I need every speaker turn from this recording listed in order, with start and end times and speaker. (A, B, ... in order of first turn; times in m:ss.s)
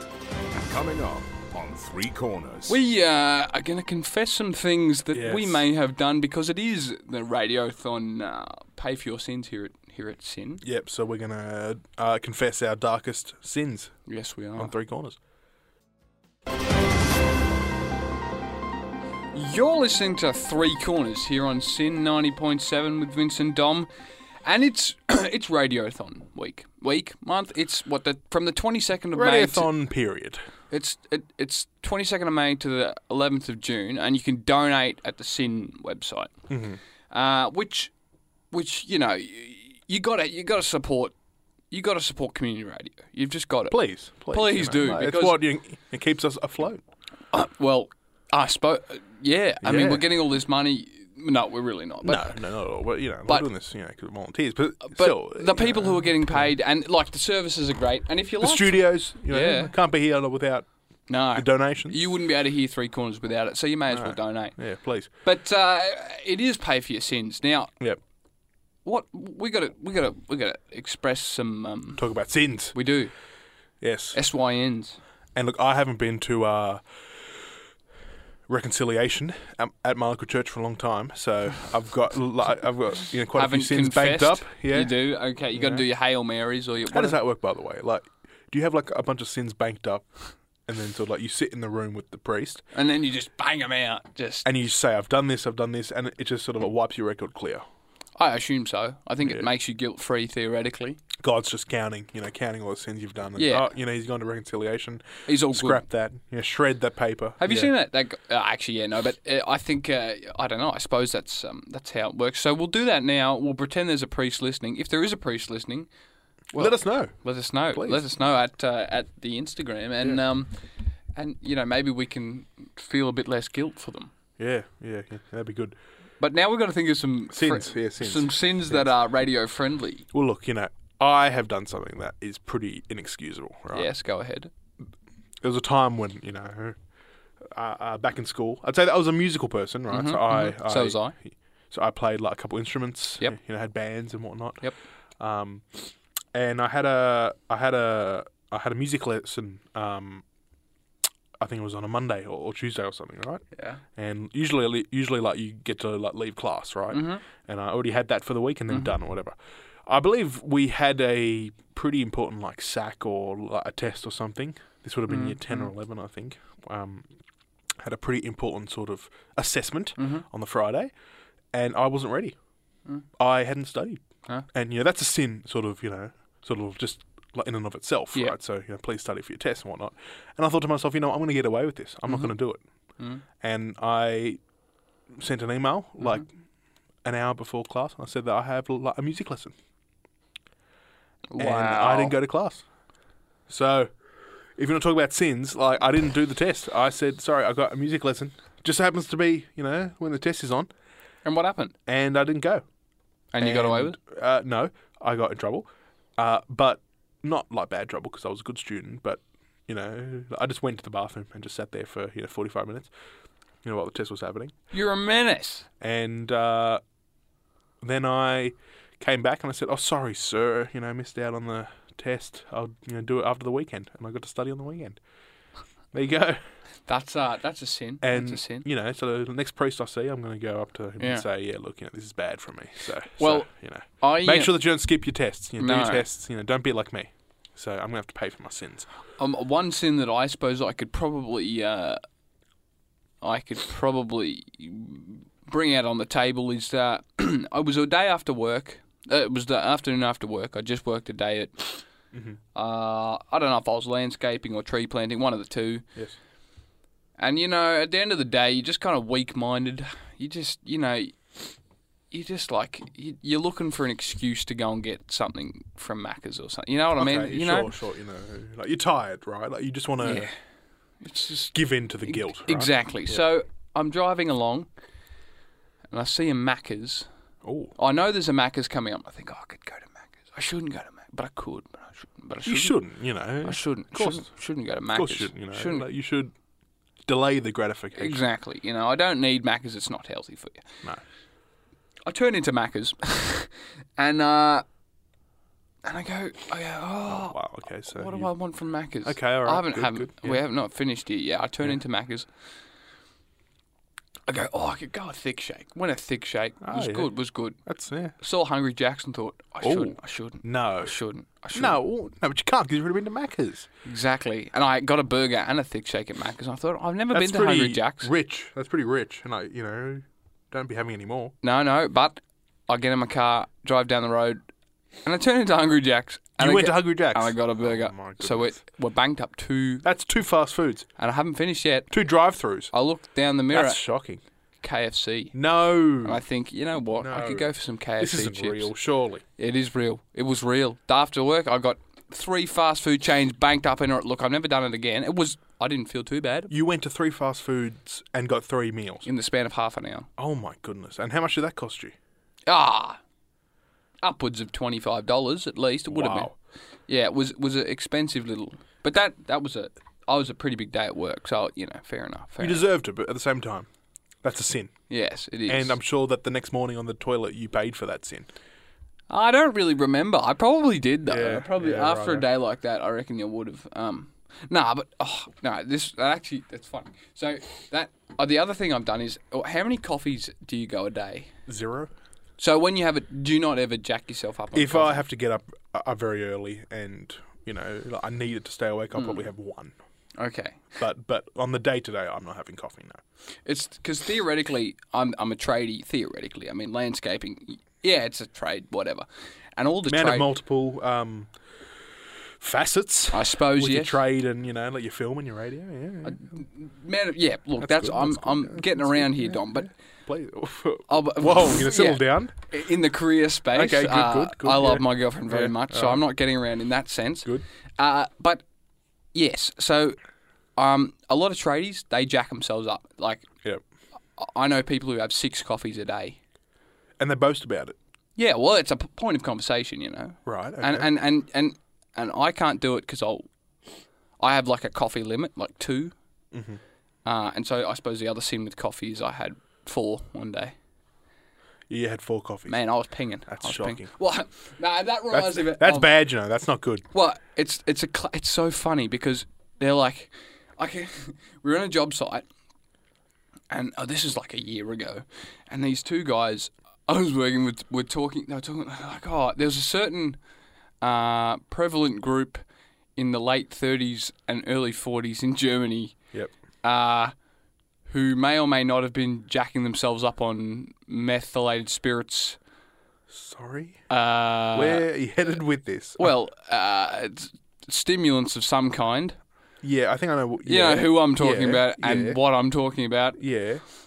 0:00.5-0:02.7 A
0:02.7-0:10.6 B
0:05.1-0:05.6 C
0:10.6-0:14.0 C
0:14.1-0:14.7 B
0:14.6-0:15.2 C
0:19.3-0:23.9 B
0:24.4-0:29.7 B
0:29.1-0:30.4 C
0:30.7-0:36.3 B
0:36.5-0:36.8 C
0:37.1-0:37.9 B
0:38.5-0:41.1 B
0:41.7-0:43.8 B
0:43.7-0:46.8 C
0:44.3-0:45.4 B
0:47.3-0:52.4 B
0:49.6-0:50.1 C
0:52.0-0:56.5 C
0:54.8-0:59.7 B
0:58.4-1:00.7 C
1:01.1-1:04.6 B
1:01.3-1:02.0 C
1:03.9-1:05.1 C
1:05.2-1:07.7 B
1:08.8-1:12.0 B
1:12.0-1:12.8 C
1:12.7-1:13.1 B
1:13.8-1:14.2 C
1:14.1-1:15.0 B
1:15.3-1:17.3 C
1:18.5-1:24.9 C
1:23.3-1:27.2 B
1:25.5-1:25.8 C
1:26.9-1:32.6 C
1:32.7-1:34.5 B
1:34.4-1:37.6 C
1:38.2-1:41.0 B
1:41.2-1:47.7 C
1:43.4-1:43.7 B
1:45.2-1:45.8 B
1:47.4-1:55.9 B
1:56.5-1:57.2 C
1:56.5-2:00.6 B
1:57.7-1:58.0 C
2:01.1-2:04.1 B
2:04.4-2:05.8 C
2:06.2-2:10.0 B
2:07.3-2:08.9 C
2:10.1-2:13.9 C
2:13.7-2:14.5 B
2:15.4-2:16.8 C
2:17.4-2:24.6 C
2:19.9-2:21.1 B
2:25.2-2:30.2 C
2:31.4-2:33.4 C
2:33.5-2:33.8 B
2:33.9-2:39.3 C
2:36.9-2:37.2 B
2:39.8-2:47.1 C
2:45.1-2:45.7 B
2:47.8-2:50.9 C
2:50.0-2:50.2 B
2:51.5-2:52.4 C
2:53.2-2:54.0 C
2:54.5-3:02.6 C
3:03.0-3:03.2 B
3:03.4-3:04.4 C
3:05.1-3:06.3 C
3:07.0-3:09.5 C
3:11.3-3:12.2 B
3:11.4-3:12.6 C
3:13.5-3:13.9 C
3:14.6-3:20.7 C
3:21.2-3:21.7 B
3:21.9-3:22.6 C
3:23.3-3:24.0 B
3:23.4-3:32.9 C
3:33.6-3:34.5 C
3:34.7-3:35.7 B
3:35.8-3:36.8 C
3:37.8-3:45.0 C
3:45.9-3:46.4 C
3:46.9-3:48.6 B
3:48.0-3:58.9 C
3:51.0-3:51.2 B
3:53.2-3:53.5 B
3:54.0-3:54.6 B
3:55.6-3:56.0 B
3:59.2-4:02.0 B
4:03.2-4:11.8 B
4:12.1-4:12.4 C
4:12.5-4:15.8 B
4:17.2-4:21.4 B
4:22.1-4:27.7 B
4:27.0-4:30.3 C
4:30.0-4:30.3 B
4:31.0-4:34.7 B
4:31.5-4:33.2 C
4:35.9-4:37.1 B
4:37.4-4:37.7 C
4:37.8-4:42.8 B
4:42.4-4:44.3 C
4:43.4-4:45.9 B
4:44.9-4:46.3 C
4:47.1-4:48.2 C
4:48.0-4:50.6 B
4:52.0-4:54.6 B
4:55.8-4:57.4 B
4:57.1-4:58.3 C
4:57.9-5:02.3 B
4:59.0-5:00.4 C
5:04.3-5:07.6 B
5:06.6-5:07.1 C
5:07.6-5:08.1 C
5:08.2-5:11.8 B
5:09.6-5:10.9 C
5:11.5-5:13.7 C
5:13.8-5:18.1 B
5:17.1-5:21.3 C
5:21.4-5:24.4 B
5:25.0-5:29.8 B
5:26.4-5:28.6 C
5:29.8-5:30.9 C
5:31.0-5:31.9 B
5:31.9-5:32.7 C
5:32.7-5:33.8 B
5:33.5-5:34.2 C
5:34.6-5:35.3 B
5:35.3-5:36.2 C
5:36.0-5:38.7 B
5:37.0-5:39.2 C
5:39.4-5:46.5 B
5:46.5-5:49.0 C
5:49.0-5:50.1 B
5:50.2-5:51.9 C
5:52.5-5:53.0 B
5:54.0-5:56.3 B
5:55.9-5:56.3 C
5:56.9-6:02.6 B
6:02.4-6:03.7 C
6:04.2-6:04.7 C
6:04.9-6:05.8 B
6:05.5-6:08.3 C
6:09.1-6:21.3 B
6:11.0-6:12.2 C
6:21.5-6:21.9 C
6:22.4-6:25.0 B
6:24.5-6:29.7 C
6:28.9-6:29.2 B
6:30.2-6:30.6 B
6:30.8-6:33.0 C
6:33.4-6:39.0 B
6:39.6-6:40.3 B
6:39.9-6:41.3 C
6:42.4-6:46.2 C
6:43.1-6:44.0 B
6:46.0-6:49.7 B
6:47.6-6:52.3 C
6:50.9-6:58.4 B
6:53.5-6:56.0 C
6:59.1-7:00.0 B
7:00.6-7:03.3 B
7:04.2-7:06.2 B
7:07.0-7:07.8 C
7:08.2-7:13.3 B
7:10.2-7:10.9 C
7:14.2-7:15.9 B
7:16.3-7:16.6 C
7:17.0-7:20.5 B
7:21.7-7:22.6 C
7:22.5-7:25.9 B
7:23.3-7:23.9 C
7:25.1-7:26.8 C
7:26.9-7:32.2 B
7:33.5-7:40.2 B
7:40.8-7:42.4 B
7:43.0-7:46.0 B
7:46.6-7:47.1 B
7:47.9-7:52.4 B
7:53.1-7:53.8 C
7:53.9-7:54.8 B
7:54.5-7:56.1 C
7:56.0-7:59.2 B
7:59.6-8:02.2 C
8:00.4-8:03.2 B
8:03.2-8:03.6 C